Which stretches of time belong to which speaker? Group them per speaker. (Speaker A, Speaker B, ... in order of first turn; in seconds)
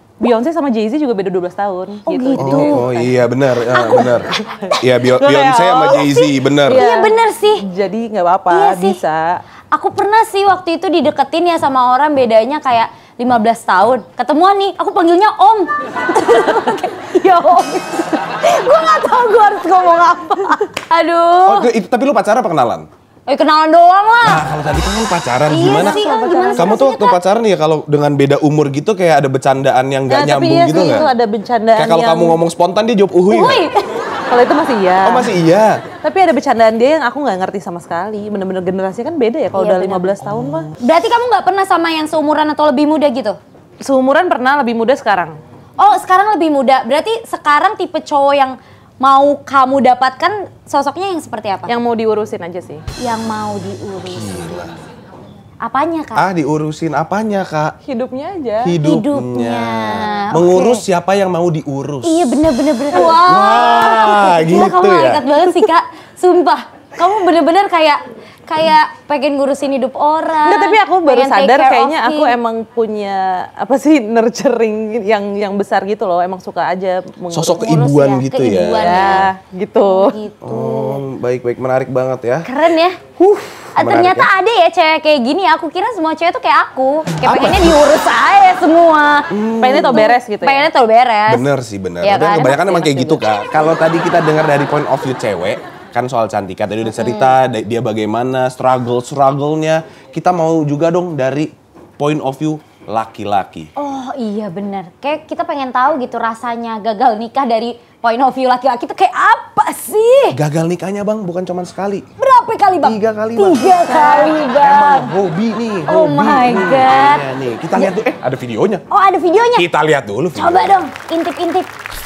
Speaker A: 0.2-3.1, 4.6-9.4, 25.6-26.7, 30.1-32.4, 34.3-35.3, 36.0-40.7, 43.8-45.4, 51.7-52.8, 57.8-58.7, 62.9-63.2, 70.4-77.9, 78.8-80.2, 89.6-90.7, 113.8-114.3
Speaker B: 2.0-2.9, 3.7-4.8, 6.7-7.6, 8.5-9.0, 9.7-21.7, 23.3-24.4, 25.5-27.2, 30.7-31.0, 33.3-33.9, 39.5-40.1, 40.8-43.4, 45.8-51.7, 53.0-54.6, 55.6-56.2, 58.8-60.8, 62.0-72.4, 77.6-79.3, 79.8-81.0, 82.4-83.0, 83.7-91.4, 92.0-93.2, 97.0-97.3, 103.8-110.4, 112.2-115.1, 115.9-117.2, 118.9-119.7, 120.3-121.7
Speaker C: 2.4-4.3, 4.8-6.8, 21.4-22.9, 24.2-31.1, 31.8-33.6, 35.0-35.8, 54.0-54.7, 56.1-57.7, 58.6-62.4, 63.2-65.2, 77.3-79.1, 80.4-82.5, 83.8-84.3, 87.2-87.8, 89.3-90.0, 91.3-103.7, 110.3-112.0, 112.8-118.8, 119.5-120.7